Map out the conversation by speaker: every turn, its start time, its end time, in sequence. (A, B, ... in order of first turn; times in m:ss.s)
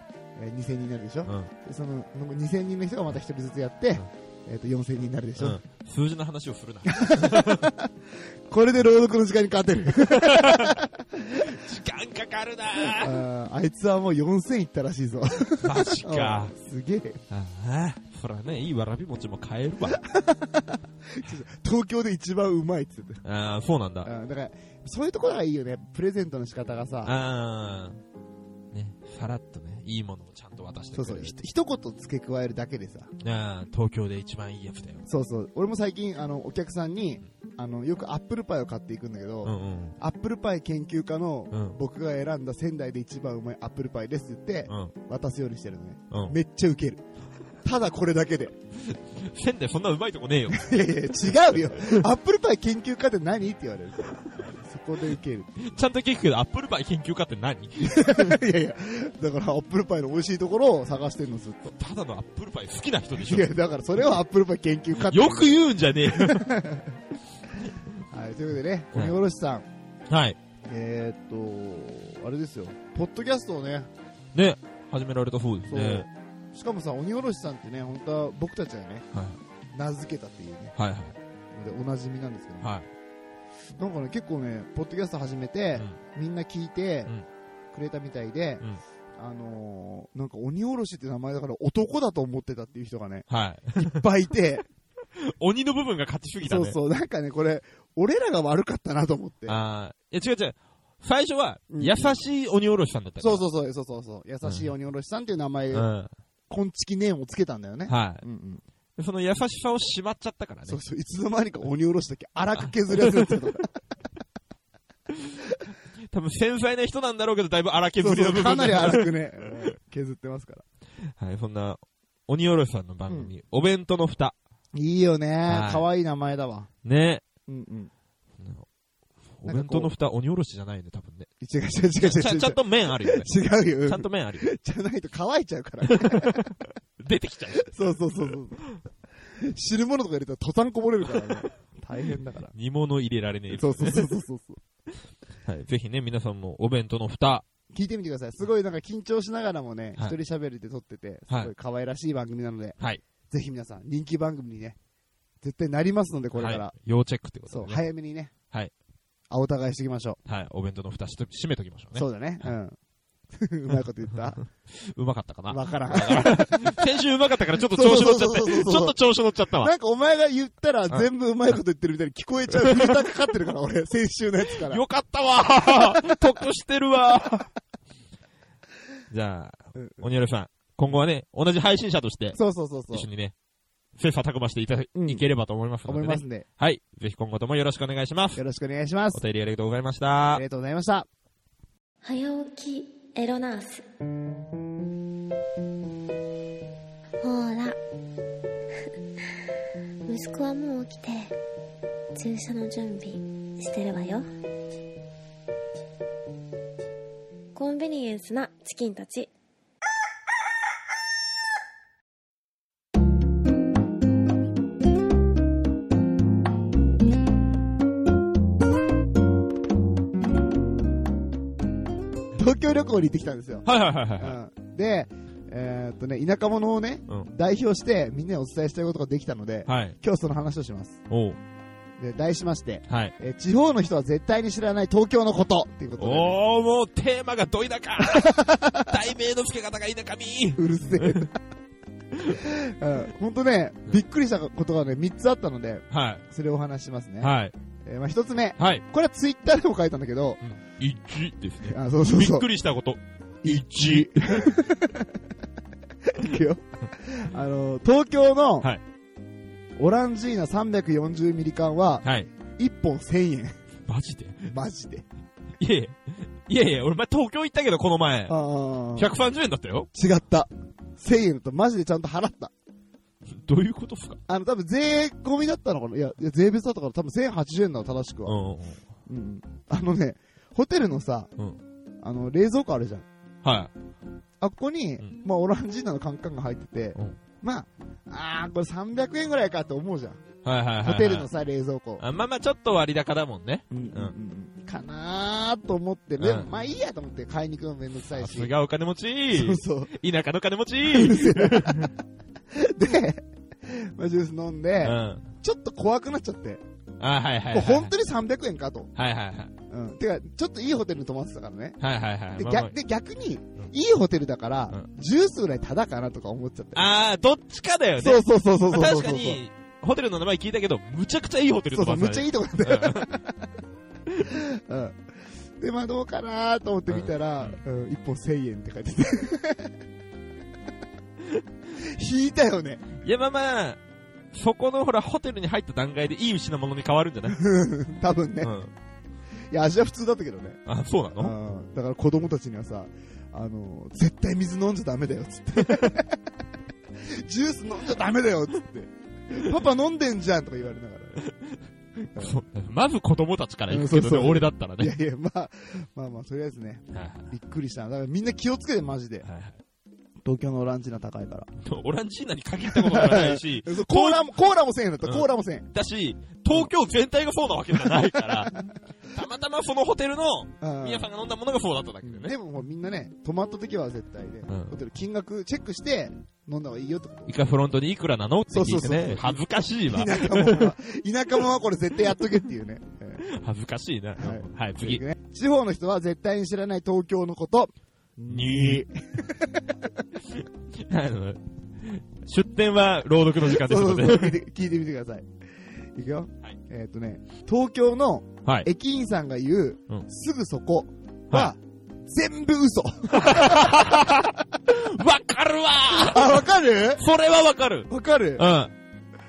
0:00.4-0:05.6 A
0:05.4-0:07.6 B
0:06.9-0:07.9 A
0:08.5-0:11.4 A
0:10.0-0:10.7 B
0:11.4-0:13.2 B
0:12.8-0:17.2 A
0:15.6-0:16.5 B
0:17.3-0:20.0 B
0:20.0-0:23.2 A
0:23.2-0:24.1 B
0:24.0-0:27.1 A
0:27.0-0:28.0 B
0:28.7-0:31.3 B
0:30.9-0:33.1 A
0:33.2-0:35.0 B
0:35.0-0:47.0 A
0:39.4-0:40.0 B
0:41.5-0:41.8 B
0:44.7-0:44.9 B
0:46.1-0:46.4 B
0:47.6-0:48.5 A
0:48.8-0:52.0 B
0:50.6-0:55.7 A
0:55.6-0:58.4 B
0:57.8-1:01.7 A
1:01.6-1:03.5 B
1:03.2-1:06.9 A
1:05.0-1:06.5 B
1:08.1-1:09.6 A
1:10.1-1:10.4 B
1:10.7-1:13.9 A
1:14.3-1:16.1 B
1:15.7-1:19.0 A
1:19.1-1:19.4 B
1:19.7-1:20.7 A
1:20.7-1:21.2 B
1:21.5-1:22.7 A
1:22.6-1:22.9 B
1:23.8-1:27.1 A
1:27.7-1:28.6 A
1:29.2-1:34.6 A
1:33.3-1:34.0 B
1:35.2-1:36.8 B
1:36.4-1:39.6 A
1:39.5-1:43.4 B
1:41.7-1:42.2 A
1:43.2-1:45.8 A
1:45.7-1:46.1 B
1:46.5-1:48.6 A
1:47.9-1:48.2 B
1:49.0-1:50.8 B
1:50.7-1:53.7 A
1:53.0-1:53.3 B
1:56.1-1:59.2 B
1:58.0-2:00.6 A
2:01.2-2:04.4 B
2:04.7-2:06.7 A
2:05.5-2:05.8 B
2:06.8-2:07.2 B
2:07.5-2:07.9 A
2:08.4-2:08.6 B
2:09.4-2:11.3 B
2:09.4-2:09.9 A
2:11.4-2:16.4 A
2:12.0-2:14.5 B
2:15.9-2:18.7 B
2:17.7-2:18.6 A
2:19.4-2:22.5 A
2:21.1-2:21.4 B
2:22.5-2:24.1 B
2:23.5-2:24.6 A
2:25.4-2:27.4 B
2:27.7-2:32.8 A
2:33.3-2:34.8 A
2:35.4-2:36.7 A
2:36.3-2:37.8 B
2:37.5-2:38.3 A
2:39.3-2:40.2 A
2:40.2-2:42.5 B
2:41.9-2:42.8 A
2:43.4-2:44.4 A
2:44.4-2:49.7 B
2:45.5-2:46.8 A
2:47.7-2:48.9 A
2:49.6-2:54.8 A
2:52.5-2:53.0 B
2:54.6-2:57.5 B
2:55.8-2:56.1 A
2:59.1-3:02.4 B
2:59.7-3:00.0 A
3:02.3-3:03.0 A
3:02.9-3:03.3 B
3:04.0-3:08.4 B
3:04.9-3:05.2 A
3:05.9-3:06.4 A
3:08.4-3:09.2 A
3:09.1-3:10.4 B
3:10.3-3:11.1 A
3:12.0-3:13.8 C
3:17.2-3:17.8 C
3:20.1-3:21.3 C
3:22.1-3:24.3 C
3:27.5-3:29.3 C
3:42.4-3:51.0 A
3:43.6-3:44.4 B
3:49.7-3:50.0 B
3:51.1-3:51.4 B
3:52.0-3:56.4 A
3:52.9-3:53.1 B
3:56.0-4:01.3 B
3:58.1-3:58.9 A
4:00.6-4:01.3 A
4:02.2-4:07.3 A
4:05.9-4:06.2 B
4:07.2-4:07.5 B
4:07.8-4:10.4 A
4:08.6-4:08.8 B
4:10.4-4:14.6 B
4:11.7-4:12.5 A
4:13.4-4:15.1 A
4:16.0-4:18.7 A
4:19.8-4:22.0 A
4:22.6-4:23.6 A
4:23.9-4:24.5 B
4:24.4-4:25.0 A
4:25.6-4:28.4 B
4:28.3-4:29.1 A
4:29.0-4:29.9 B
4:29.9-4:32.5 A
4:33.3-4:34.2 B
4:34.3-4:38.4 A
4:38.2-4:38.8 B
4:39.1-4:41.3 A
4:42.0-4:43.0 A
4:43.4-4:43.7 B
4:44.4-4:50.2 A
4:50.4-4:51.3 B
4:50.8-4:52.0 A
4:52.0-4:54.1 B
4:53.7-4:58.5 A
4:56.2-4:56.5 B
4:58.0-5:01.9 B
4:59.3-4:59.9 A
5:00.8-5:01.9 A
5:02.5-5:06.6 A
5:04.8-5:05.3 B
5:07.0-5:07.9 B
5:07.5-5:08.9 A
5:09.0-5:09.5 B
5:09.7-5:11.8 A
5:11.8-5:12.7 B
5:12.4-5:16.8 A
5:16.7-5:23.1 B
5:18.0-5:19.4 A
5:21.7-5:23.4 A
5:24.2-5:25.0 A
5:25.6-5:29.7 A
5:26.9-5:27.6 B
5:31.8-5:32.8 A
5:33.0-5:33.8 B
5:34.3-5:37.4 B
5:37.3-5:38.5 A
5:38.4-5:38.7 B
5:39.5-5:40.6 A
5:40.6-5:41.3 B
5:41.2-5:46.2 A
5:45.6-5:46.0 B
5:47.1-5:51.2 A
5:51.2-5:51.6 B
5:52.2-5:55.0 B
5:53.7-5:59.2 A
5:56.9-5:57.3 B
5:59.2-5:59.6 B
6:00.2-6:01.5 A
6:01.6-6:04.2 B
6:02.7-6:05.7 A
6:05.0-6:08.6 B
6:09.1-6:12.3 B
6:10.6-6:11.1 A
6:12.0-6:17.3 A
6:14.5-6:14.8 B
6:17.3-6:20.7 B
6:18.5-6:23.2 A
6:23.2-6:25.0 B
6:24.2-6:29.6 A
6:28.3-6:28.8 B
6:30.8-6:34.4 B
6:33.4-6:35.2 A
6:35.9-6:44.3 A
6:43.1-6:48.7 B
6:46.0-6:47.0 A
6:47.9-6:48.4 A